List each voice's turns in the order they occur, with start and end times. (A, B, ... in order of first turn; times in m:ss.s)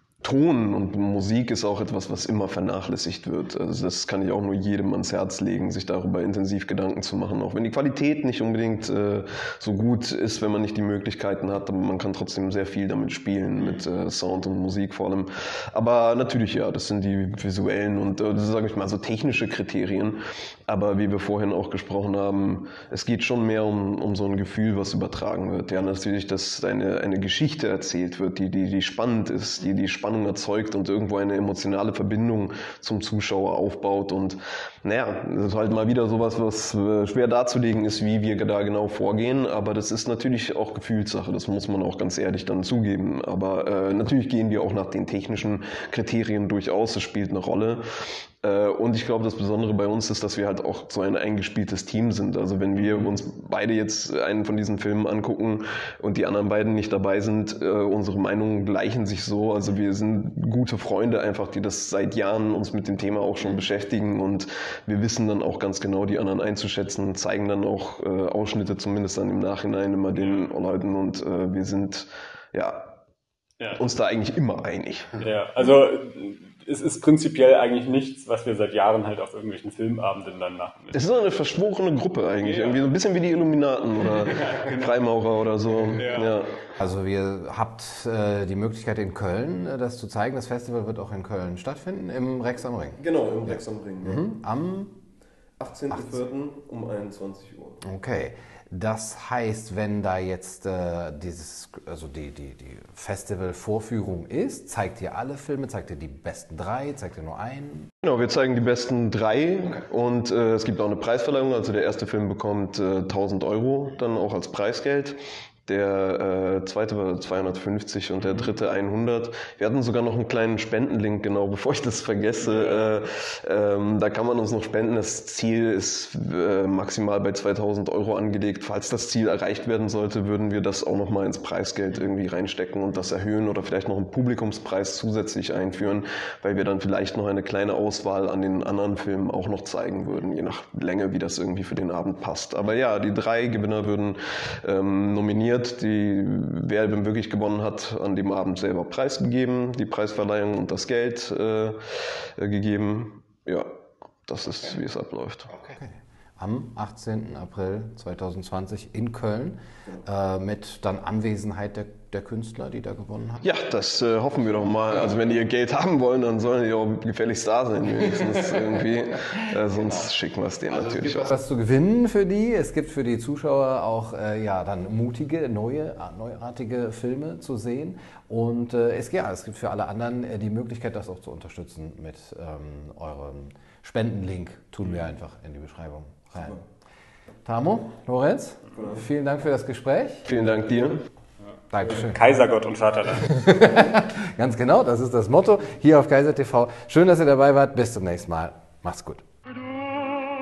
0:00.2-0:47.8 A
0:48.4-1:13.0 A
1:10.2-1:10.6 B
1:13.8-1:15.2 A
1:15.2-1:21.1 B
1:20.9-1:26.5 A
1:22.4-1:22.9 B
1:24.1-1:25.2 B
1:25.9-1:26.4 B
1:26.8-1:35.0 C
1:33.0-1:34.3 A
1:35.6-1:37.8 A
1:35.9-1:36.2 C
1:37.8-1:47.9 C
1:48.0-2:33.7 A
2:02.4-2:03.0 B
2:34.3-2:35.6 A
2:35.7-2:43.4 C
2:43.4-2:51.3 A
2:51.2-3:06.6 C
3:07.4-3:10.3 C
3:10.3-3:11.0 A
3:11.5-3:13.6 B
3:11.7-3:12.2 C
3:13.3-3:19.2 C